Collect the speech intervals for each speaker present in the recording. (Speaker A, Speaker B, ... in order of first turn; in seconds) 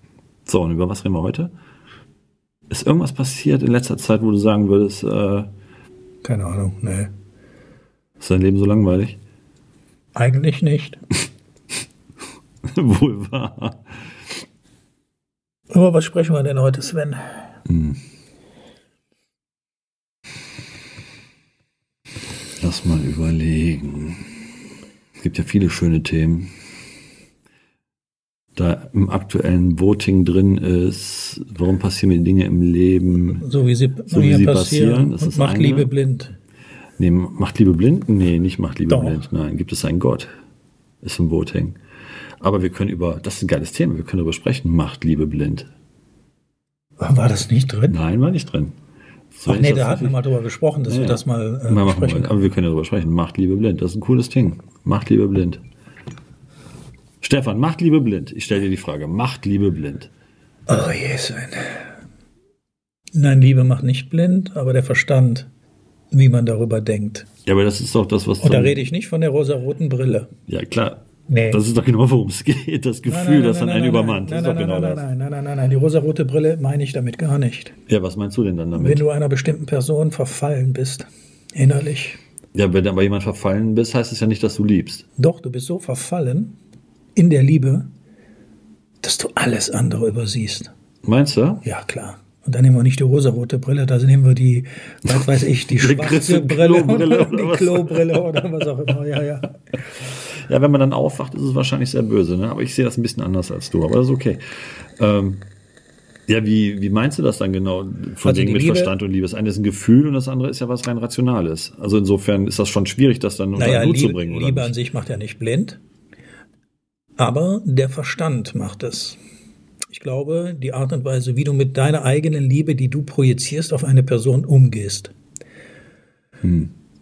Speaker A: 0.5-1.5, 2.7-5.5, 8.2-9.2, 12.6-14.1, 17.6-18.0, 22.6-24.3, 25.2-26.5, 28.6-33.4, 34.1-35.9, 37.0-40.3, 41.0-41.8, 42.4-45.7, 47.9-48.8, 49.3-50.2, 50.9-55.6, 57.2-60.1, 67.5-68.8, 70.5-75.0, 77.9-79.0, 82.5-85.0, 91.0-91.6, 95.1-98.4, 100.0-105.5, 106.3-114.7, 126.4-126.7
Speaker B: 6.2-7.1, 10.1-11.0, 15.7-17.5, 33.4-36.3, 38.9-39.2, 47.0-48.0, 49.5-52.5, 60.7-61.9, 63.1-65.5, 66.1-67.3, 68.4-70.3, 71.3-71.6, 73.0-77.8, 78.7-82.2, 85.2-86.6, 87.1-87.9, 89.0-90.7, 91.6-99.5, 108.2-108.9, 113.5-115.8, 117.2-119.2, 119.9-125.1